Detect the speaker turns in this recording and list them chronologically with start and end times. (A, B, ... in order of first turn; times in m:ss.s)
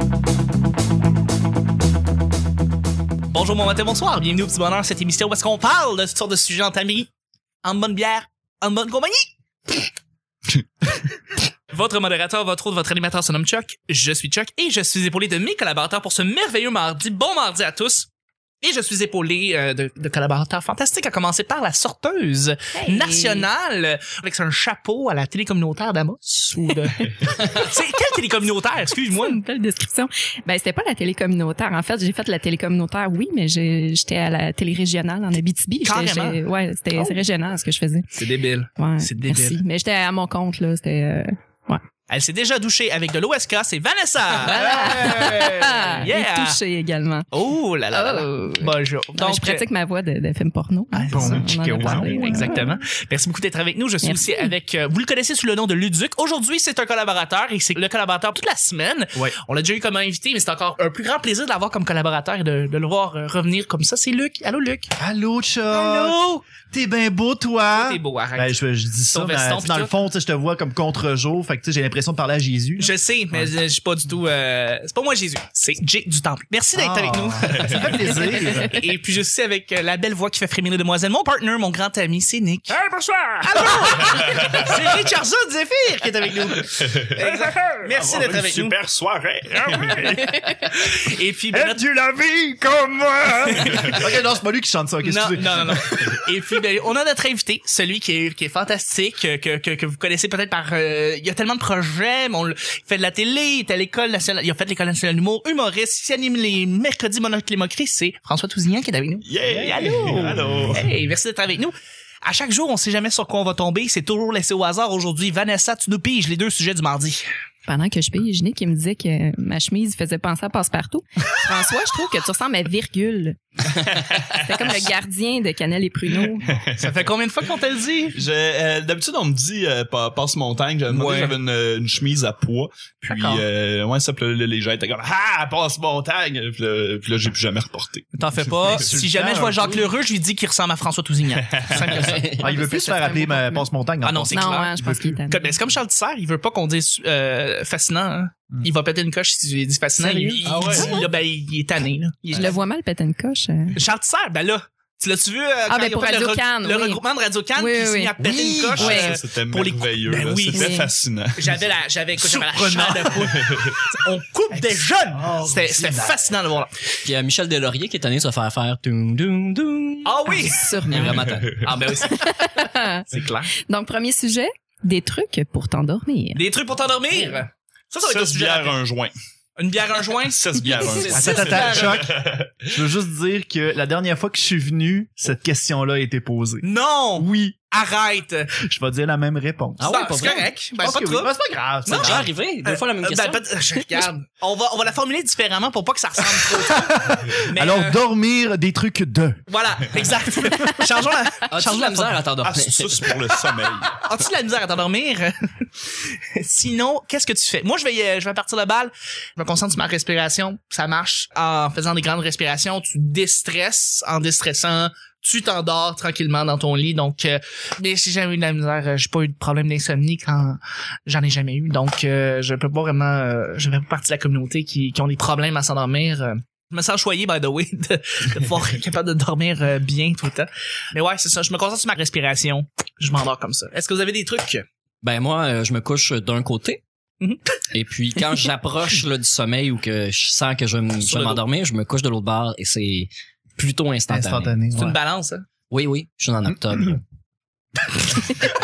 0:03.3-0:07.1 A
0:07.6-0:09.8 A
0:11.7-0:18.1 A
0:18.6-0:29.4 A
0:22.7-0:23.5 B
0:26.7-0:27.7 B
0:29.1-0:38.1 B
0:35.8-0:36.4 A
0:38.2-0:39.6 A
0:38.8-0:41.8 B
0:42.1-0:46.6 A
0:44.4-0:46.0 C
0:44.5-0:47.3 B
0:47.3-0:49.7 A
0:47.9-0:52.8 B
0:50.9-1:04.9 A
0:51.1-0:52.5 C
0:54.0-0:54.5 B
1:05.0-1:13.5 C
1:05.7-1:06.4 A
1:07.7-1:09.9 A
1:12.8-1:22.8 A
1:16.8-1:18.7 C
1:17.5-1:17.8 D
1:23.2-1:24.8 D
1:23.4-1:24.8 C
1:23.4-1:28.8 A
1:25.9-1:27.7 C
1:26.7-1:27.2 D
1:27.9-1:31.0 D
1:30.8-1:31.8 A
1:31.5-1:36.2 C
1:33.4-1:34.0 A
1:33.7-1:34.0 D
1:35.0-1:57.2 A
1:49.2-1:50.8 D
1:49.4-1:50.8 C
1:57.7-2:03.4 B
2:03.7-2:04.9 D
2:04.4-2:06.5 B
2:06.4-2:07.1 D
2:06.8-2:08.2 A
2:08.1-2:18.9 D
2:10.9-2:11.4 A
2:13.1-2:13.4 A
2:18.1-2:22.2 A
2:18.4-2:19.8 C
2:21.5-2:22.2 D
2:21.8-2:22.5 E
2:22.4-2:23.7 B
2:22.4-2:25.2 C
2:24.0-2:24.8 A
2:24.3-2:25.5 B
2:25.3-2:32.6 A
2:30.0-2:30.6 C
2:30.1-2:31.0 B
2:30.4-2:31.1 D
2:32.3-2:33.8 B
2:33.7-2:40.8 A
2:35.7-2:37.0 B
2:37.6-2:38.1 B
2:38.2-2:38.9 C
2:38.7-2:41.6 D
2:38.8-2:39.2 B
2:40.5-2:40.9 B
2:41.4-2:46.7 A
2:42.2-2:43.7 C
2:43.4-2:43.8 D
2:45.1-2:46.3 C
2:47.0-2:52.1 E
2:50.0-2:50.8 A
2:50.3-2:51.2 B
2:50.9-2:51.7 D
2:51.7-2:52.4 A
2:51.9-2:53.1 B
2:53.1-2:53.5 A
2:53.6-2:56.4 B
2:56.3-2:58.8 A
2:58.0-2:59.1 D
2:59.6-3:02.0 A
3:00.2-3:02.7 D
3:00.6-3:01.1 B
3:01.1-3:06.6 C
3:06.6-3:08.5 A
3:07.2-3:07.6 C
3:08.6-3:10.0 C
3:09.8-3:10.5 E
3:09.8-3:11.3 A
3:10.8-3:12.3 C
3:11.9-3:18.0 A
3:12.0-3:13.4 E
3:16.2-3:19.4 C
3:19.5-3:22.2 A
3:21.5-3:23.2 E
3:22.4-3:24.0 D
3:24.0-3:54.6 A
3:55.0-3:56.8 E
3:57.7-4:04.6 E
4:01.0-4:01.4 A
4:04.1-4:05.0 C
4:04.7-4:05.4 A
4:05.7-4:07.0 E